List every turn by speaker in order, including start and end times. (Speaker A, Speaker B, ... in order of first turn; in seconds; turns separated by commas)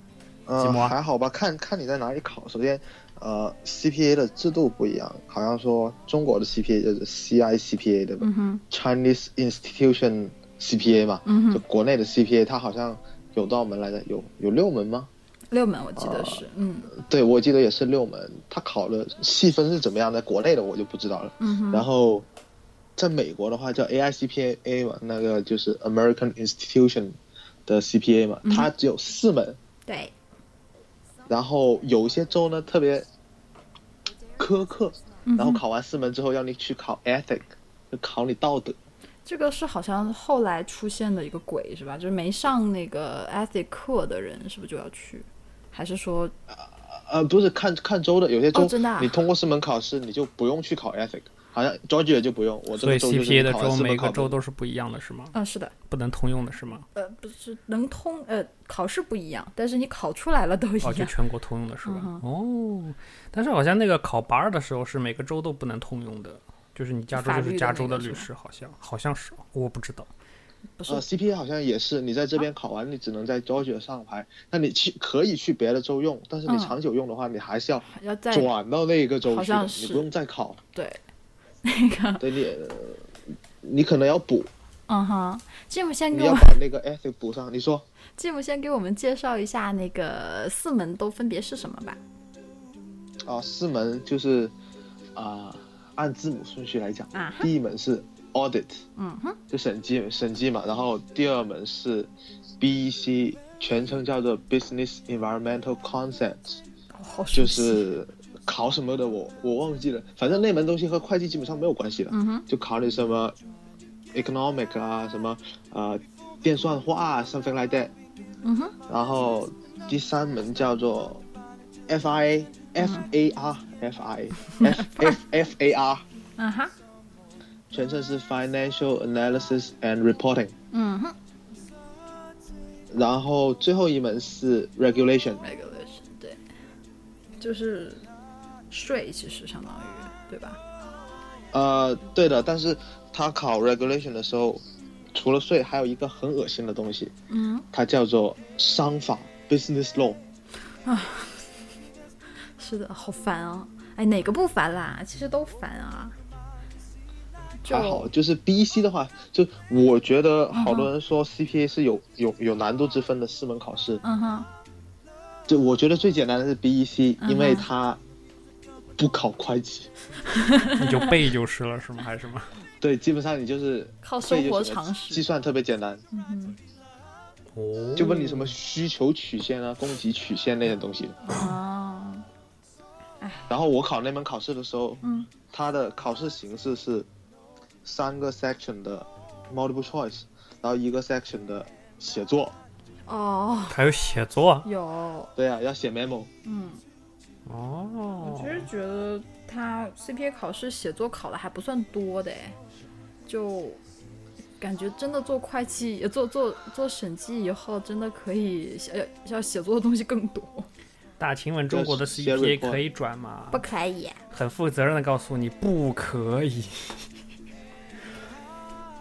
Speaker A: 0.5-15.1, Speaker B: 0.6-0.9, Speaker C: 8.2-8.6, Speaker C: 11.2-11.6, Speaker C: 15.5-16.9, Speaker A: 16.0-22.3, Speaker C: 21.4-21.9, Speaker A: 23.0-29.6, Speaker C: 28.4-28.7, Speaker C: 29.9-30.1, Speaker A: 31.3-33.1, Speaker A: 34.4-38.8, Speaker C: 35.3-35.6, Speaker C: 39.2-46.3, Speaker A: 46.5-54.4, Speaker C: 48.5-49.2, Speaker B: 52.8-55.3, Speaker C: 55.3-55.7, Speaker B: 55.9-56.8, Speaker C: 56.9-61.1, Speaker B: 60.8-70.1, Speaker C: 61.8-62.2, Speaker C: 67.1-68.3, Speaker C: 70.8-71.0, Speaker A: 70.9-80.6, Speaker C: 76.5-76.8, Speaker C: 77.8-78.5, Speaker C: 79.2-80.1, Speaker C: 80.7-81.0, Speaker C: 81.6-82.2, Speaker A: 82.2-84.5, Speaker C: 84.9-86.6, Speaker A: 86.1-87.8, Speaker C: 88.2-92.0, Speaker A: 93.2-94.5, Speaker A: 95.2-98.8, Speaker C: 97.1-97.5, Speaker C: 99.0-99.4, Speaker A: 99.5-106.6, Speaker C: 106.9-107.9, Speaker A: 107.3-113.3, Speaker C: 112.1-112.5, Speaker A: 114.1-117.9, Speaker C: 118.4-118.8, Speaker A: 118.9-121.2, Speaker A: 121.9-126.0, Speaker C: 122.8-123.0, Speaker C: 124.5-125.2, Speaker C: 126.4-126.7, Speaker A: 127.7-130.5, Speaker C: 130.7-131.1, Speaker A: 132.9-135.4, Speaker C: 135.4-136.4, Speaker C: 137.4-138.0, Speaker C: 138.7-140.6, Speaker A: 141.5-144.6, Speaker A: 145.1-147.1, Speaker C: 147.3-147.7, Speaker A: 147.7-150.2, Speaker C: 150.8-151.5, Speaker C: 152.6-156.1, Speaker C: 157.6-158.1, Speaker A: 157.7-164.0, Speaker C: 160.5-160.9, Speaker C: 164.0-164.5, Speaker A: 165.5-168.0, Speaker C: 167.2-167.7, Speaker A: 168.9-169.9, Speaker C: 170.3-170.9, Speaker B: 170.7-172.5, Speaker A: 172.8-176.0, Speaker C: 174.0-175.2, Speaker C: 176.1-176.6, Speaker B: 177.5-178.5, Speaker A: 177.9-181.2, Speaker C: 181.3-182.2, Speaker C: 183.2-183.5, Speaker A: 183.5-187.1, Speaker C: 185.0-185.3, Speaker A: 187.8-192.6, Speaker C: 193.1-193.8, Speaker B: 193.7-194.7, Speaker C: 194.6-195.3, Speaker A: 195.3-196.3, Speaker C: 196.4-196.8, Speaker B: 197.5-198.7, Speaker C: 198.2-202.6, Speaker C: 203.2-203.8, Speaker C: 204.6-210.7, Speaker B: 211.2-213.7, Speaker A: 211.7-212.8, Speaker C: 213.5-214.2, Speaker B: 214.3-217.1